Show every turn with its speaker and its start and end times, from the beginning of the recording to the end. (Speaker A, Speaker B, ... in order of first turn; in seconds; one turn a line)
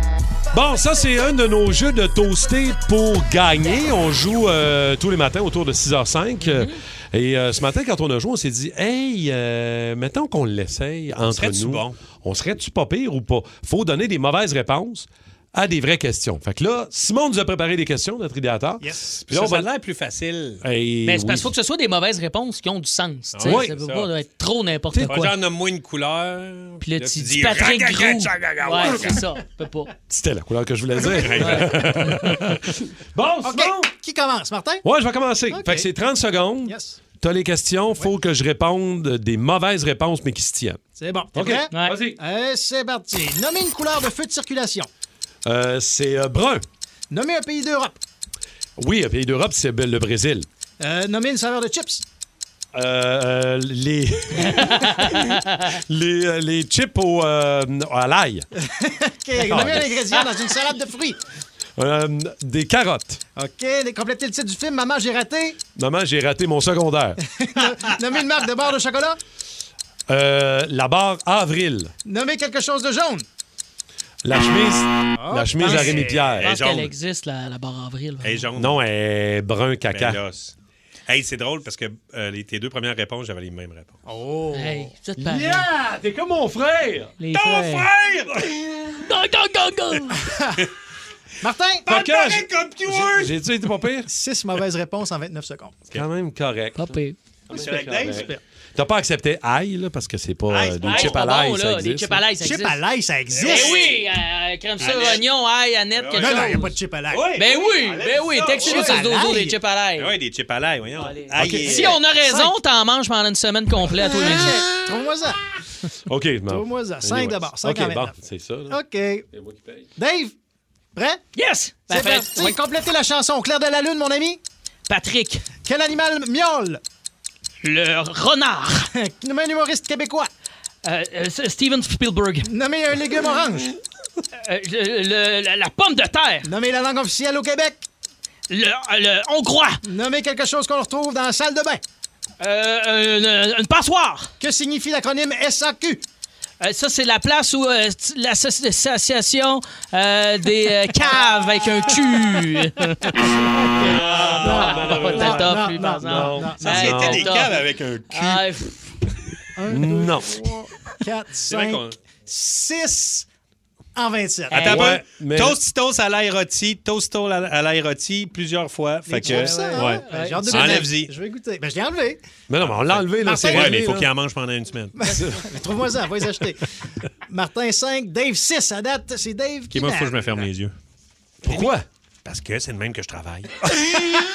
Speaker A: 0.5-19.7
Speaker B: 6.4-6.8
Speaker C: 11.2-12.0
Speaker D: 18.8-19.2
Speaker C: 19.3-20.6
Speaker A: 20.6-21.5
Speaker B: 21.0-25.4
Speaker C: 23.3-24.1
Speaker A: 23.4-23.7
Speaker C: 25.1-29.2
Speaker B: 26.8-29.9
Speaker A: 30.1-33.9
Speaker C: 31.0-32.5
Speaker B: 31.4-32.3
Speaker D: 33.4-34.8
Speaker A: 34.8-40.8
Speaker D: 35.5-35.9
Speaker D: 36.6-37.0
Speaker D: 41.0-44.9
Speaker A: 41.3-42.2
Speaker B: 41.7-42.0
Speaker A: 45.4-46.6
Speaker D: 47.1-48.0
Speaker A: 48.8-50.5
Speaker D: 50.8-52.0
Speaker A: 52.7-58.5
Speaker B: 54.8-55.3
Speaker D: 58.5-61.2
Speaker A: 59.4-60.2
Speaker A: 61.8-63.2
Speaker D: 63.4-65.6
Speaker A: 65.7-67.2
Speaker D: 67.2-69.2
Speaker A: 70.1-71.9
Speaker D: 72.0-73.2
Speaker A: 74.2-76.5
Speaker D: 75.2-76.4
Speaker B: 75.6-78.4
Speaker C: 76.4-76.9
Speaker C: 78.2-78.8
Speaker A: 78.6-80.2
Speaker C: 79.9-80.5
Speaker C: 81.1-84.0
Speaker D: 84.0-84.9
Speaker B: 84.5-85.7
Speaker A: 85.2-87.2
Speaker B: 87.2-87.9
Speaker C: 87.3-88.5
Speaker B: 89.0-90.3
Speaker D: 90.3-90.5
Speaker D: 91.4-92.0
Speaker A: 91.9-94.1
Speaker C: 91.9-93.4
Speaker D: 94.0-95.8
Speaker A: 95.9-96.9
Speaker B: 96.8-97.2
Speaker C: 97.5-98.3
Speaker D: 97.5-98.4
Speaker A: 97.5-102.2
Speaker C: 100.5-101.2
Speaker B: 100.8-102.8
Speaker D: 102.4-103.9
Speaker C: 103.3-104.1
Speaker B: 103.3-106.8
Speaker C: 104.8-105.3
Speaker C: 105.9-109.0
Speaker D: 106.2-107.3
Speaker B: 107.3-110.1
Speaker D: 108.6-109.6
Speaker C: 110.0-112.0
Speaker B: 111.0-114.7
Speaker A: 111.4-111.7
Speaker D: 111.7-112.5
Speaker D: 114.2-115.4
Speaker A: 116.1-118.8
Speaker D: 116.5-119.3
Speaker A: 119.3-119.9
Speaker D: 120.0-120.3
Speaker D: 120.9-121.2
Speaker B: 121.3-122.6
Speaker D: 121.9-124.4
Speaker B: 124.9-125.5
Speaker D: 125.6-126.8
Speaker B: 127.6-128.9
Speaker D: 128.9-130.3
Speaker B: 130.8-132.5
Speaker D: 132.4-133.7
Speaker B: 134.4-136.5
Speaker D: 136.4-137.8
Speaker B: 138.5-139.8
Speaker D: 139.8-141.8
Speaker B: 142.4-144.3
Speaker D: 144.4-146.0
Speaker B: 146.6-153.1
Speaker D: 153.5-156.7
Speaker C: 153.8-155.7
Speaker B: 154.2-158.9
Speaker A: 154.2-157.5
Speaker C: 156.6-158.4
Speaker D: 159.6-163.2
Speaker A: 159.7-160.4
Speaker C: 161.3-162.0
Speaker D: 163.9-164.7
Speaker B: 164.5-164.9
Speaker C: 164.5-171.1
Speaker A: 164.6-165.6
Speaker D: 169.1-172.3
Speaker B: 169.2-170.9
Speaker A: 172.5-174.1
Speaker C: 172.6-175.2
Speaker D: 173.1-173.8
Speaker D: 175.0-176.7
Speaker A: 175.1-175.4
Speaker D: 177.3-180.4
Speaker C: 179.7-180.7
Speaker A: 181.4-181.8
Speaker C: 182.2-183.9